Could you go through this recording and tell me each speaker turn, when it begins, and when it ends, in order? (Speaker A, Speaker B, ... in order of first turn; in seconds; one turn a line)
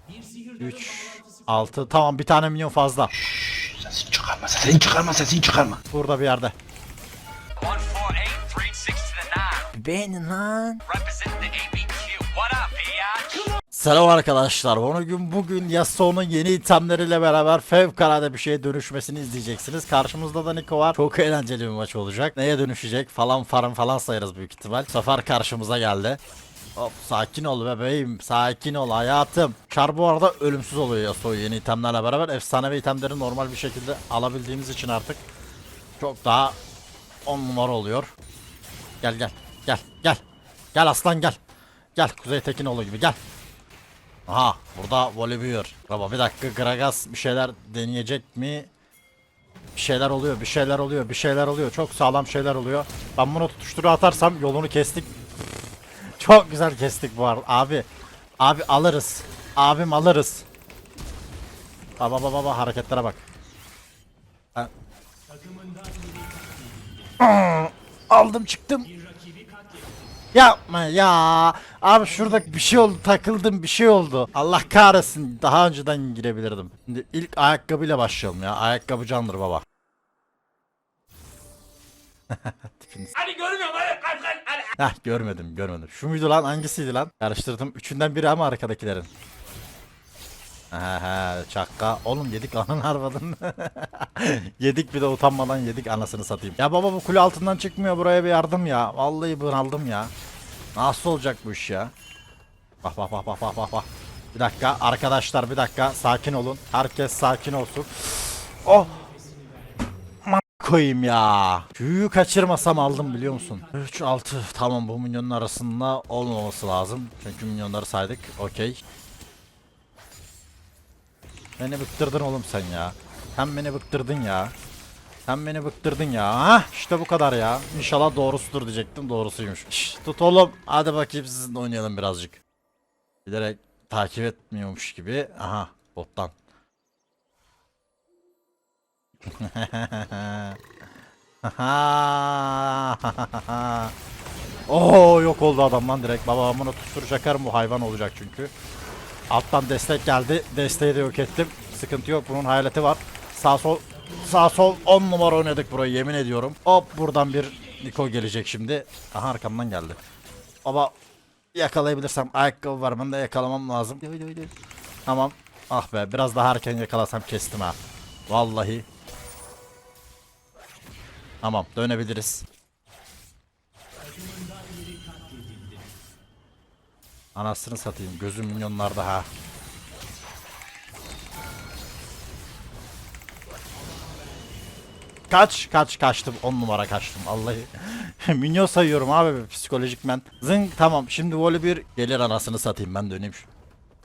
Speaker A: 0.6-3.1
Speaker B: 3.2-5.8
Speaker A: 5.9-6.5
Speaker B: 7.6-7.9
Speaker C: 7.9-9.7
Speaker A: 9.7-10.9
Speaker C: 11.0-13.5
Speaker A: 13.7-26.2
Speaker A: 26.8-35.2
Speaker A: 36.0-36.6
Speaker A: 37.2-38.1
Speaker A: 39.0-40.2
Speaker A: 40.7-41.4
Speaker A: 42.0-43.2
Speaker A: 44.3-48.7
Speaker A: 49.8-55.1
Speaker A: 56.2-57.9
Speaker A: 58.4-60.5
Speaker A: 62.0-63.2
Speaker A: 67.2-68.9
Speaker A: 70.3-79.6
Speaker A: 82.3-83.5
Speaker A: 84.5-89.1
Speaker A: 90.7-100.1
Speaker A: 100.8-101.9
Speaker A: 102.8-109.1
Speaker A: 110.2-118.8
Speaker A: 121.6-124.5
Speaker A: 125.3-132.4
Speaker A: 133.3-136.3
Speaker A: 139.3-140.6
Speaker A: 141.4-143.9
Speaker A: 144.7-148.5
Speaker A: 149.3-160.0
Speaker A: 160.6-160.9
Speaker A: 161.5-164.5
Speaker A: 165.1-168.9
Speaker A: 171.4-172.5
Speaker A: 177.3-179.3
Speaker A: 185.3-193.5